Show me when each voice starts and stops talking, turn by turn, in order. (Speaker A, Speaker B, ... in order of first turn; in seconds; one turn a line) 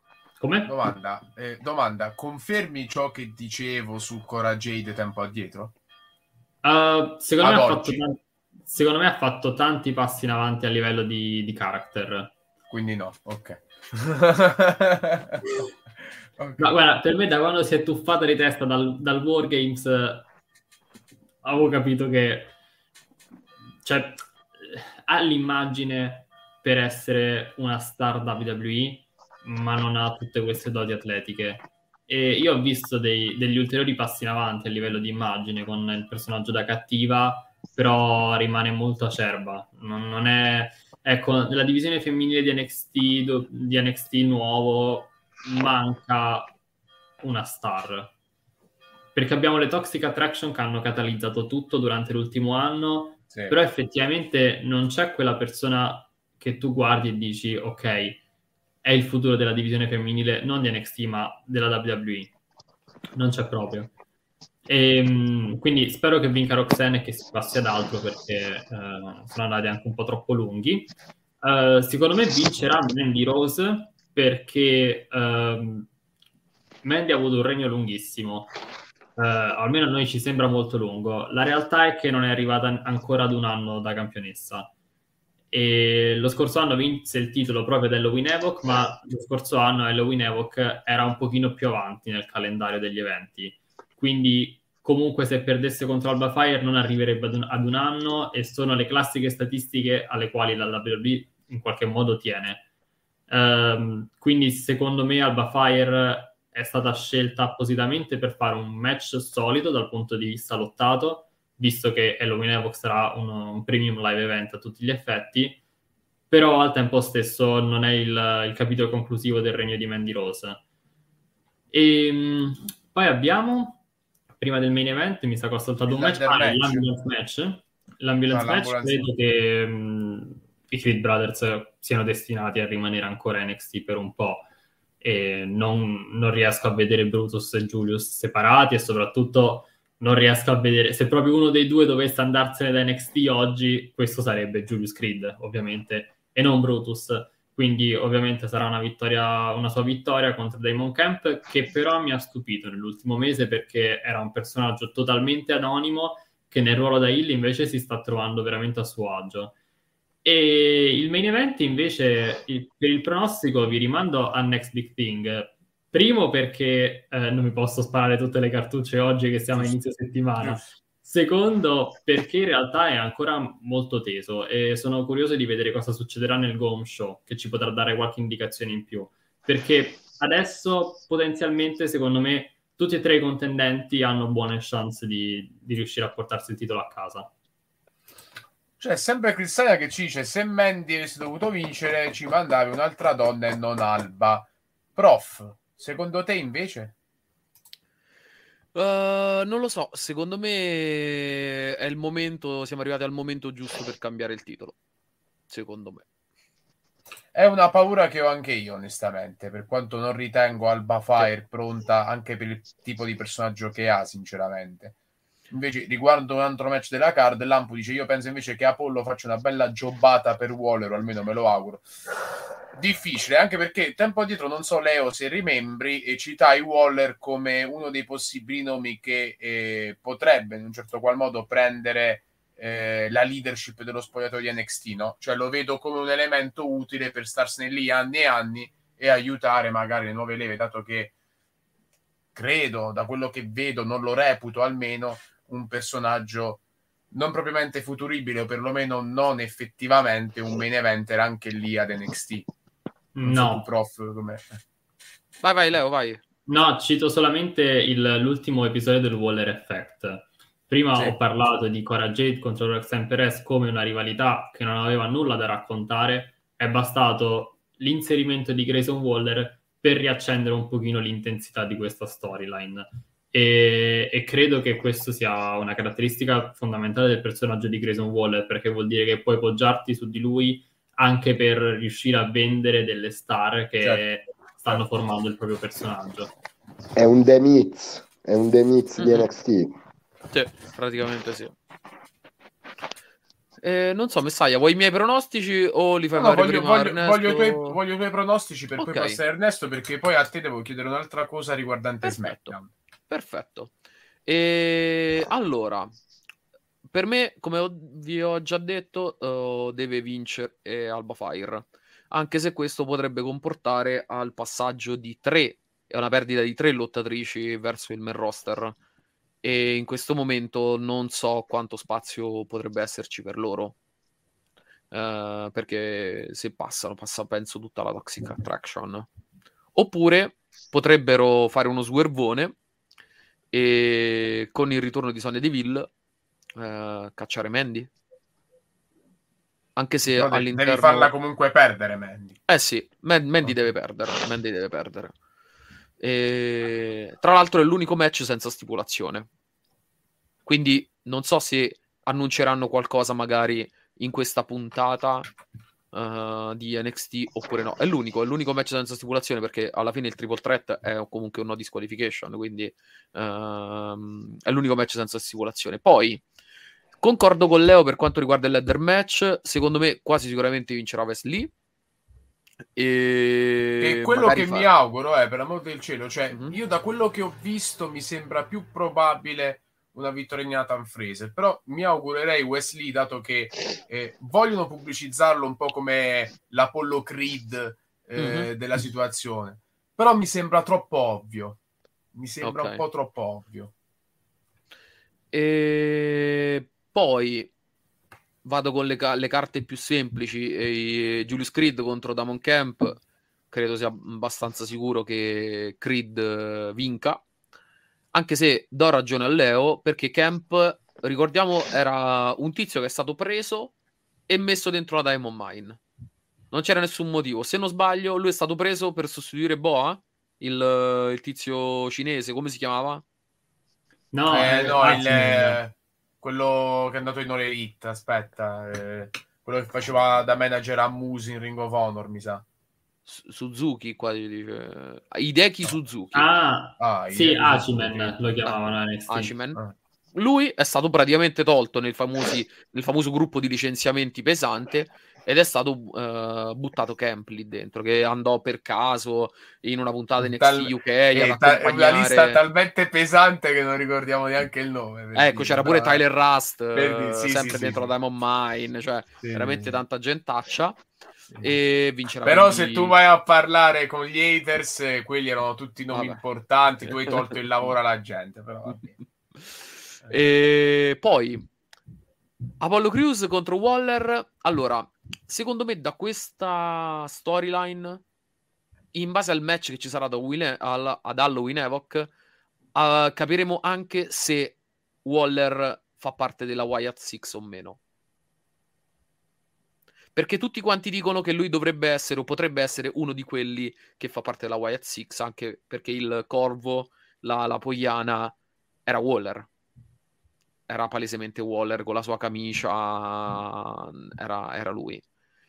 Speaker A: 0.4-0.7
Speaker B: 0.7-5.7
Speaker A: 6.6-12.3
Speaker B: 7.4-8.0
Speaker B: 12.7-15.6
Speaker B: 16.4-16.8
Speaker A: 16.6-20.3
Speaker A: 21.4-22.5
Speaker A: 23.8-46.5
Speaker A: 47.2-48.1
Speaker A: 49.1-58.2
Speaker A: 58.8-62.3
Speaker A: 63.1-63.9
Speaker A: 64.7-75.9
Speaker A: 76.8-78.5
Speaker A: 79.2-84.7
Speaker A: 85.5-102.7
Speaker A: 103.3-115.6
Speaker A: 116.3-120.6
Speaker A: 121.7-123.8
Speaker A: 124.4-134.5
Speaker B: 125.8-126.9
Speaker B: 128.3-129.1
Speaker A: 135.0-159.6
Speaker A: 160.2-187.3
Speaker B: 170.4-170.7
Speaker B: 188.8-196.9
Speaker C: 198.8-204.8
Speaker C: 205.5-206.1
Speaker B: 207.3-214.9
Speaker B: 215.5-221.8
Speaker B: 222.8-241.1
Speaker B: 242.3-252.5
Speaker A: 253.2-253.7
Speaker B: 253.2-254.6
Speaker C: 255.4-256.2
Speaker A: 256.5-286.3
Speaker D: 287.0-289.7
Speaker C: 289.0-289.2
Speaker C: 290.3-291.6
Speaker C: 293.6-297.8
Speaker B: 296.1-302.7
Speaker C: 298.8-299.2
Speaker C: 302.0-302.6
Speaker C: 303.1-303.7
Speaker C: 304.3-305.9
Speaker C: 306.9-318.8
Speaker C: 319.4-323.8
Speaker C: 324.9-329.1
Speaker C: 329.8-332.6
Speaker C: 333.5-335.9
Speaker C: 336.6-337.9
Speaker C: 339.8-341.1
Speaker B: 340.1-342.4
Speaker C: 342.5-345.1
Speaker B: 343.4-343.7
Speaker C: 346.0-349.3
Speaker C: 350.5-355.3
Speaker C: 355.9-366.2
Speaker C: 367.0-371.5
Speaker C: 372.8-374.7
Speaker B: 373.8-391.6
Speaker C: 388.2-388.5
Speaker B: 392.1-393.7
Speaker C: 392.4-392.8
Speaker C: 395.3-397.5
Speaker C: 398.4-403.0
Speaker C: 403.5-407.2
Speaker C: 408.1-413.7
Speaker C: 414.3-415.8
Speaker C: 416.5-423.0
Speaker A: 424.1-425.6
Speaker B: 424.3-432.4
Speaker C: 433.1-436.3
Speaker A: 436.1-439.3
Speaker B: 436.8-438.1
Speaker C: 438.4-439.6
Speaker C: 440.1-452.4
Speaker B: 450.2-456.0
Speaker C: 455.1-460.8
Speaker B: 456.7-457.9
Speaker B: 459.2-459.8
Speaker C: 461.4-463.0
Speaker B: 462.2-468.9
Speaker C: 465.9-466.2
Speaker C: 466.8-467.4
Speaker C: 470.1-471.4
Speaker C: 472.6-478.0
Speaker C: 478.9-482.1
Speaker C: 482.8-487.8
Speaker C: 490.1-498.4
Speaker C: 498.9-499.5
Speaker C: 500.7-505.0